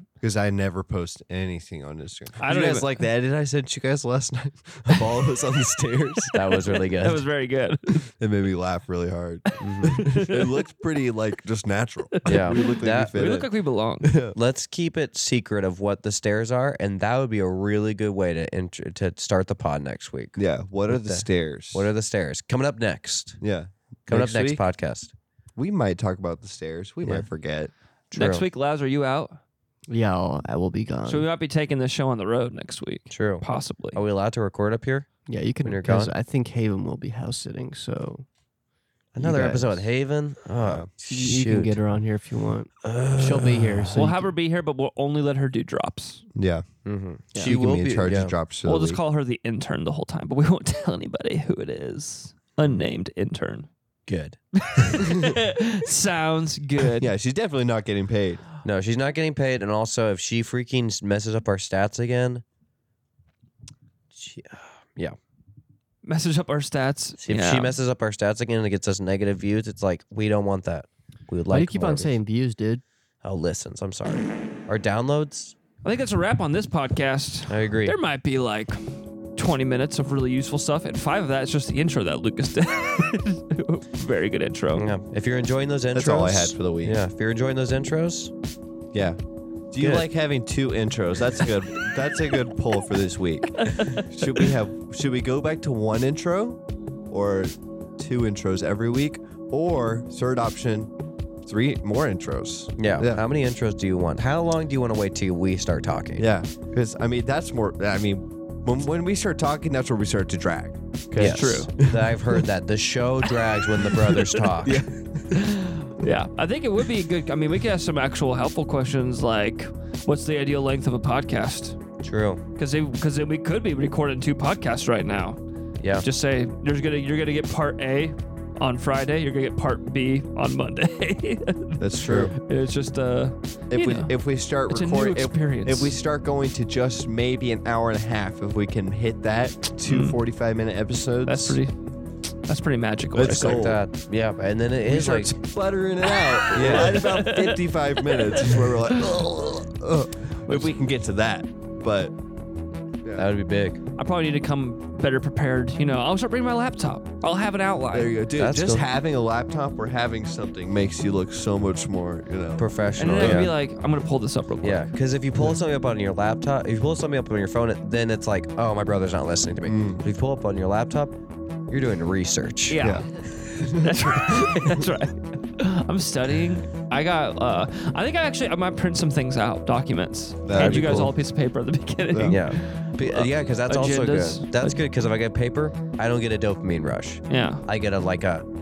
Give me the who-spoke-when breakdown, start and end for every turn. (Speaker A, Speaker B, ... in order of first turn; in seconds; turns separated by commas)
Speaker A: 0.2-6.3, Speaker B: 2.4-3.0, Speaker C: 6.3-7.2, Speaker B: 6.5-8.0, Speaker A: 8.1-13.5, Speaker C: 9.6-10.1, Speaker B: 9.6-10.4, Speaker B: 12.2-14.1, Speaker C: 12.2-13.1, Speaker A: 14.0-14.3, Speaker C: 14.3-23.4, Speaker A: 20.4-21.9, Speaker A: 23.4-24.6, Speaker C: 24.1-25.1, Speaker A: 25.6-27.7, Speaker C: 28.1-28.4, Speaker B: 28.1-29.4, Speaker D: 29.9-31.3, Speaker B: 31.1-34.0, Speaker C: 33.1-35.1, Speaker D: 35.3-38.2, Speaker C: 35.6-36.1, Speaker C: 39.1-41.8, Speaker D: 39.2-39.8, Speaker A: 40.6-40.9, Speaker D: 41.1-44.2, Speaker C: 42.8-43.9, Speaker B: 43.9-46.2, Speaker A: 46.3-46.6, Speaker C: 46.9-48.3, Speaker A: 47.3-49.0, Speaker B: 48.6-53.7, Speaker C: 54.1-55.0, Speaker B: 54.6-57.1, Speaker A: 56.9-58.4, Speaker C: 58.6-62.4, Speaker C: 64.1-65.2, Speaker B: 66.0-67.7, Speaker C: 67.2-72.2, Speaker D: 71.5-72.8, Speaker C: 73.2-75.5, Speaker B: 75.8-84.8, Speaker C: 77.5-78.0, Speaker C: 84.7-88.3, Speaker A: 85.9-87.0, Speaker A: 88.9-89.2, Speaker A: 89.7-100.9, Speaker C: 89.8-90.0, Speaker B: 93.6-94.5, Speaker A: 101.4-103.2, Speaker C: 102.8-106.3, Speaker A: 106.2-112.4, Speaker B: 111.2-111.7, Speaker C: 111.2-114.8, Speaker A: 114.1-115.5, Speaker B: 115.3-121.8, Speaker C: 122.0-122.4, Speaker B: 122.5-125.4, Speaker C: 125.8-126.0, Speaker B: 126.0-134.1, Speaker A: 131.8-132.3, Speaker A: 133.7-141.6, Speaker B: 134.7-135.9, Speaker B: 139.9-140.2, Speaker B: 141.2-141.7, Speaker B: 142.5-143.6, Speaker A: 143.1-143.8, Speaker C: 143.4-145.3, Speaker A: 144.8-152.1, Speaker B: 146.2-148.6, Speaker C: 146.5-147.0, Speaker B: 150.5-150.7, Speaker A: 153.0-153.3, Speaker C: 153.1-153.8, Speaker B: 154.0-158.1, Speaker A: 157.9-163.5, Speaker C: 158.4-158.8, Speaker C: 162.6-163.5, Speaker B: 163.0-164.9, Speaker C: 164.6-171.1, Speaker A: 169.6-170.0, Speaker C: 171.7-172.9, Speaker B: 172.7-173.1, Speaker A: 173.6-174.4, Speaker B: 173.6-184.8, Speaker A: 180.4-181.1, Speaker C: 180.6-181.1, Speaker A: 182.1-182.4, Speaker C: 182.3-188.4, Speaker B: 187.3-187.6